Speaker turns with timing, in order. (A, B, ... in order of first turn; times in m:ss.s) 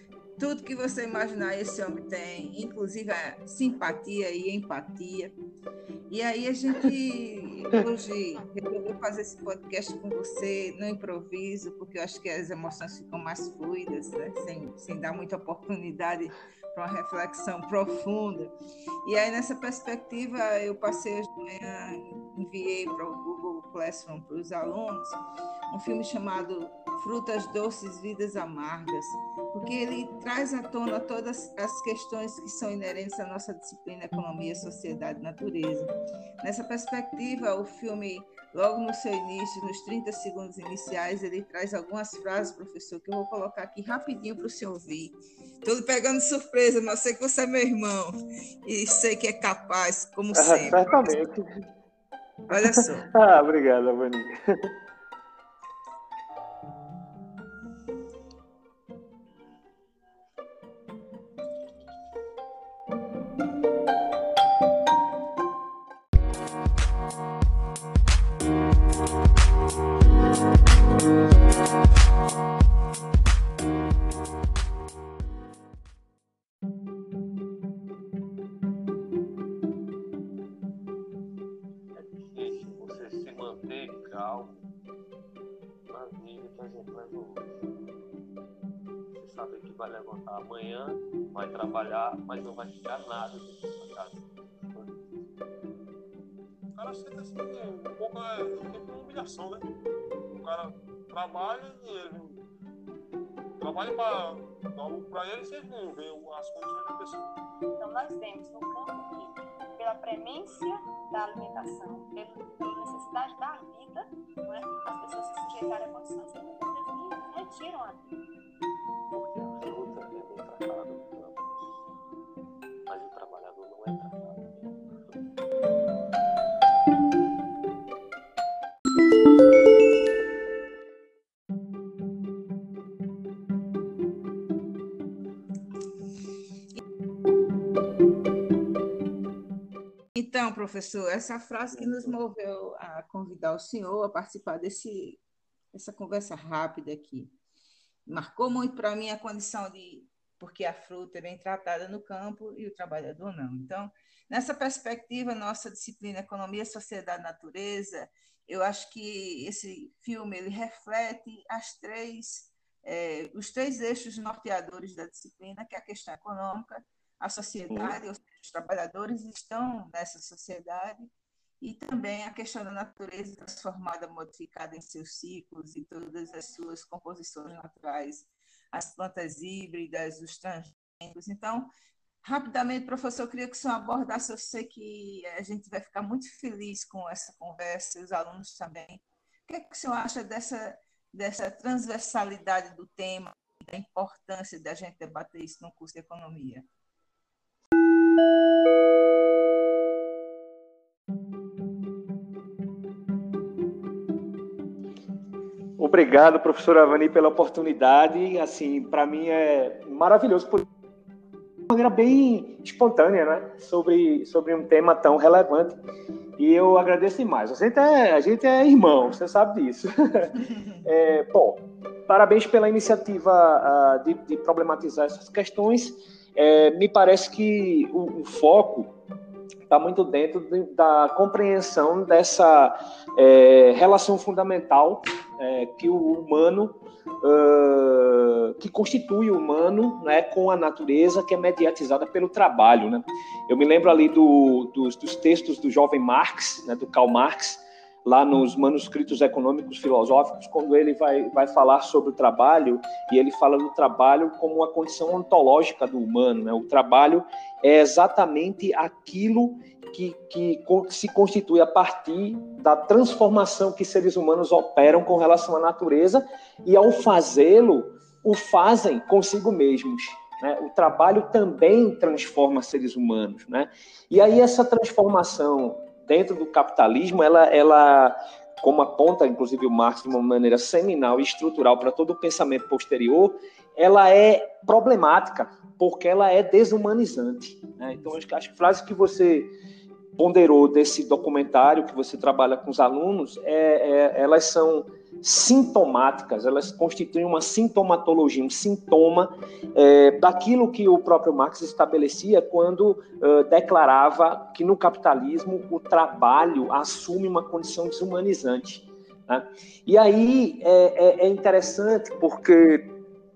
0:00.4-0:05.4 A
0:06.1-0:18.5 A
0:19.0-0:51.3 A
0:50.3-0:51.4 B
0:52.5-0:53.1 A
0:52.5-0:54.3 B
1:22.0-1:24.6 C
1:25.9-1:27.5 C
1:29.2-1:34.9 C
1:36.8-1:39.7 D
1:40.3-1:42.4 D
1:43.6-1:47.3 D
1:47.8-1:58.1 E
1:59.1-2:01.4 C
2:02.9-2:05.2 C
2:20.1-2:25.2 A
2:25.7-2:27.3 A
2:28.1-3:01.7 A
2:47.7-2:48.0 B
3:02.2-3:16.7 A
3:25.8-3:30.6 B
3:31.7-3:35.8 B
3:36.4-3:48.9 B
3:49.7-4:49.5 B
4:50.2-5:12.9 B